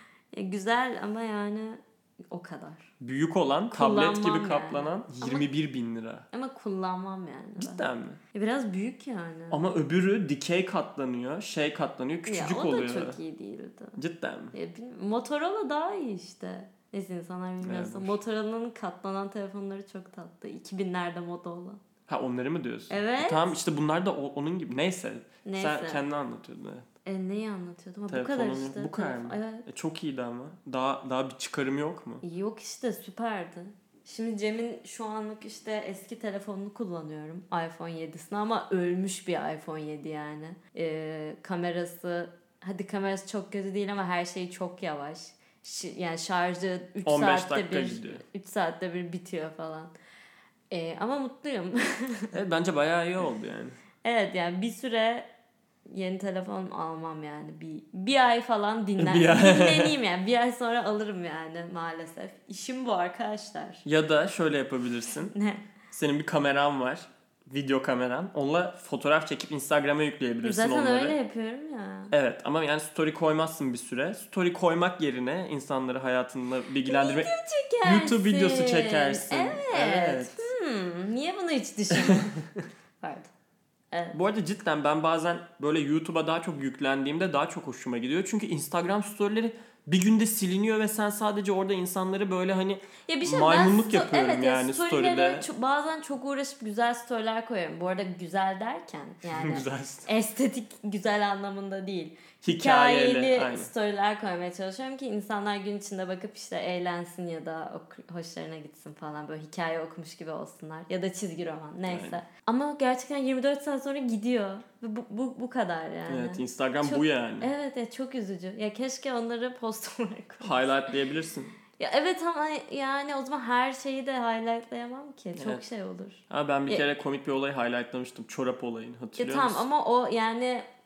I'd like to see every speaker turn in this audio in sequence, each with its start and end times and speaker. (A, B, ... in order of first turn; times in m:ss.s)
0:00.3-0:02.9 A
0:03.0-0:06.3 B
0:03.7-0:05.4 A
0:06.3-0:09.7 A
0:07.6-0:08.2 B
0:09.5-0:13.2 B
0:12.2-0:14.0 A
0:14.0-0:14.5 B
0:14.5-0:21.8 A
0:17.6-0:18.2 B
0:22.1-0:26.8 B
0:22.9-0:23.5 A
0:25.4-0:26.0 A
0:27.0-0:29.6 A
0:28.1-0:32.2 B
0:32.2-0:49.9 A
0:47.0-0:48.2 B
0:50.7-0:52.3 A
0:52.3-0:53.8 B
0:54.0-0:55.3 A
0:55.9-1:03.8 A
0:59.0-1:00.0 B
1:03.8-1:05.3 B
1:05.3-1:05.6 A
1:05.9-1:11.2 B
1:10.4-1:12.1 A
1:12.1-1:17.3 B
1:16.8-1:22.4 A
1:17.8-1:20.5 B
1:23.0-1:23.3 A
1:24.1-1:35.5 B
1:33.0-2:00.9 A
1:39.3-1:40.1 B
1:42.4-1:43.7 B
1:51.9-1:52.2 B
1:56.1-1:57.5 B
2:00.4-2:01.5 B
2:01.8-2:06.8 A
2:05.4-2:05.6 B
2:06.3-2:09.6 B
2:09.2-2:10.6 A